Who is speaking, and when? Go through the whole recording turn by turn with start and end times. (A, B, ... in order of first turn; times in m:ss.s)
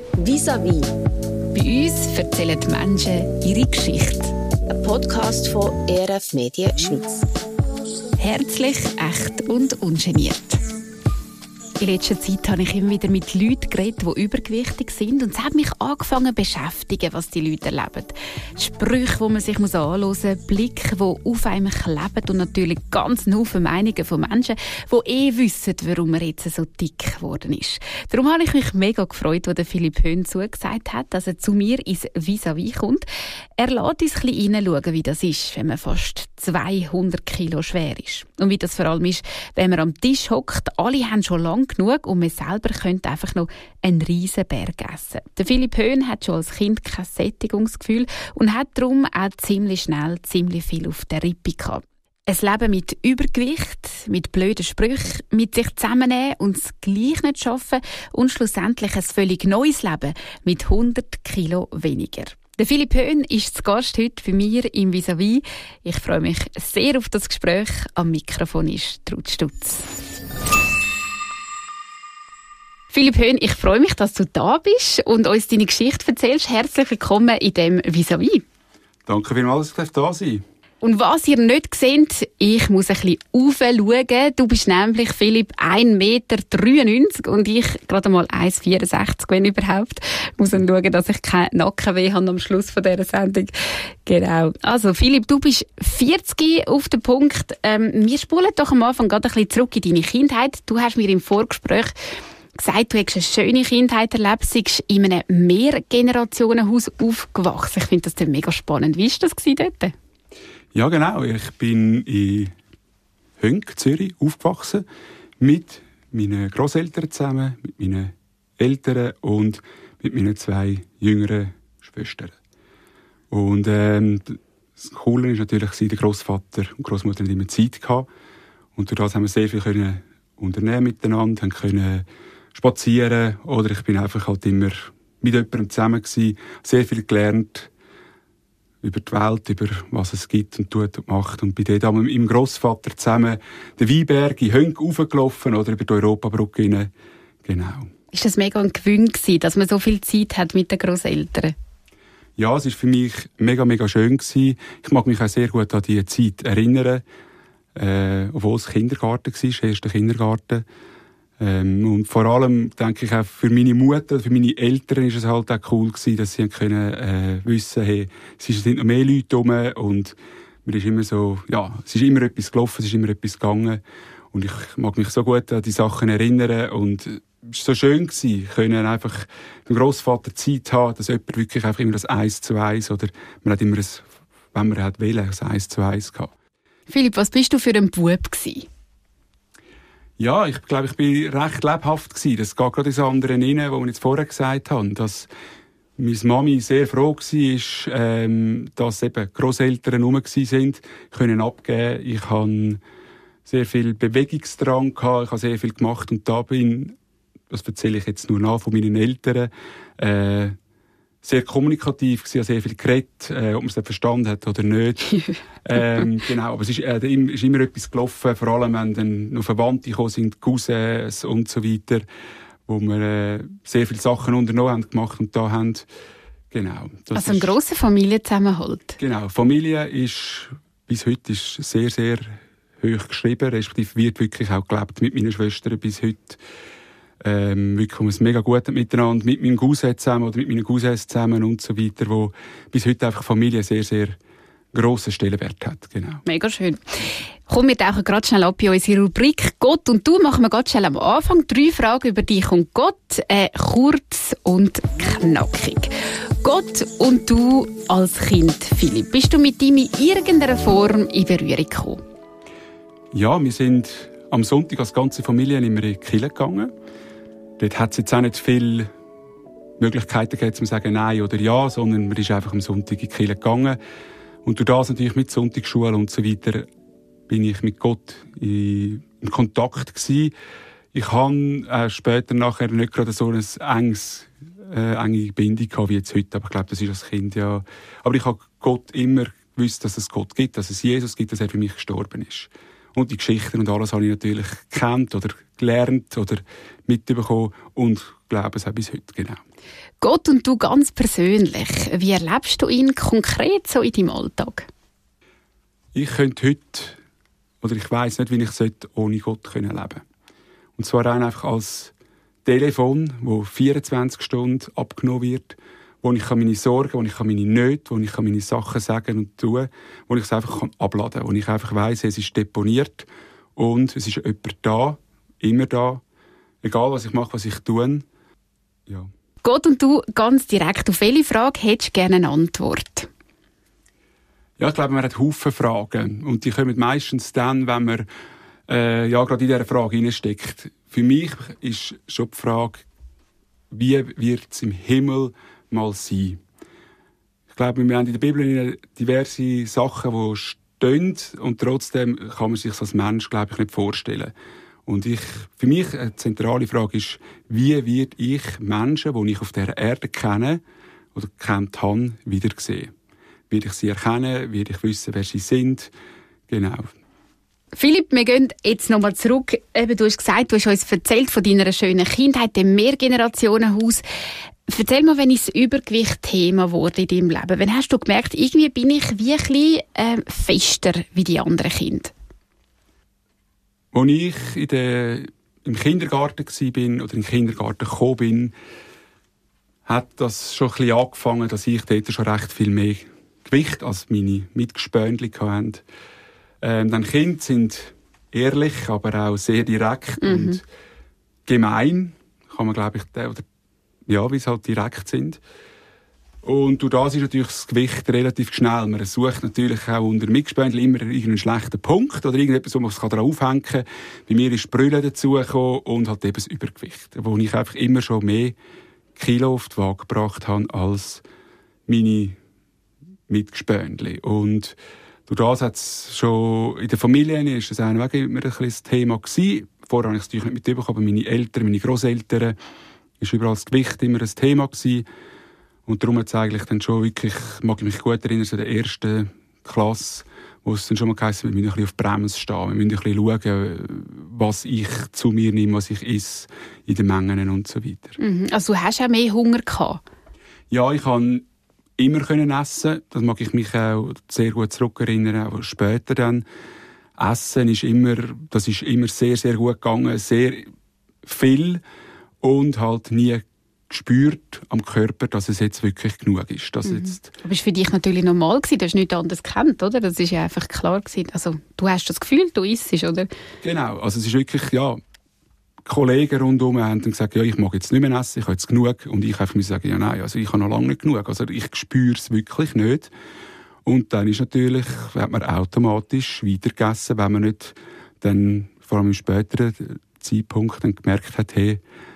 0:00.2-0:00.9 A
0:01.5-0:04.3 B
0:04.7-0:07.2 A
0:08.2-0:10.6 B
0:11.8-0:33.1 B
0:33.6-1:10.0 B
1:12.9-1:18.4 B
1:19.1-1:20.4 C
1:20.8-1:41.9 B
1:42.6-1:49.9 B
1:50.7-1:52.5 C
1:53.4-1:54.8 C
1:55.4-2:02.4 C
2:03.3-2:08.1 C
2:08.8-2:17.7 C
2:18.8-2:26.9 C
2:27.4-2:27.9 C
2:28.1-2:31.5 B
2:32.4-2:37.0 C
2:37.7-2:40.6 C
2:41.4-2:53.8 C
2:54.3-3:06.3 C
3:06.9-3:08.7 B
3:10.2-3:15.3 C
3:16.0-3:22.8 C
3:23.4-3:26.9 C
3:27.5-3:30.6 C
3:31.2-3:42.0 C
3:42.6-3:45.8 C
3:46.5-3:47.6 C
3:47.1-3:49.0 B
3:49.0-3:56.4 C
3:57.2-4:04.2 C
4:04.7-4:06.2 C
4:06.2-4:22.0 B
4:23.1-4:26.7 C
4:27.6-4:28.9 C
4:29.8-4:33.8 C
4:34.4-4:36.7 C
4:37.3-4:40.3 C
4:40.9-4:59.4 C
5:00.0-5:04.7 B
5:05.9-5:07.0 C
5:07.6-5:10.0 C
5:10.8-5:11.9 C
5:12.4-5:26.0 C
5:26.6-5:28.0 C
5:29.4-5:33.1 B
5:34.6-5:38.1 C
5:38.7-5:42.8 C
5:43.7-5:46.4 C
5:47.5-5:54.3 C
5:54.8-6:00.6 C
6:01.1-6:02.9 C
6:03.5-6:05.9 C
6:06.5-6:06.9 C
6:07.7-6:14.0 B
6:14.7-6:22.1 B
6:23.9-6:28.5 C
6:29.8-6:35.8 C
6:36.6-6:40.6 C
6:40.2-6:40.6 B
6:41.4-6:43.4 C
6:44.1-6:45.4 C
6:46.4-6:58.6 C
6:59.2-7:01.2 C
7:01.9-7:02.4 C
7:03.3-7:04.8 C
7:05.3-7:12.6 C
7:13.2-7:15.0 C
7:15.8-7:28.2 C
7:28.2-7:30.0 B
7:30.7-7:31.4 C
7:32.0-7:36.4 C
7:37.2-7:40.7 C
7:41.2-7:41.8 C
7:42.4-7:47.3 C
7:46.8-7:53.3 B
7:53.6-7:55.0 C
7:55.8-8:03.1 C
8:03.8-8:11.8 C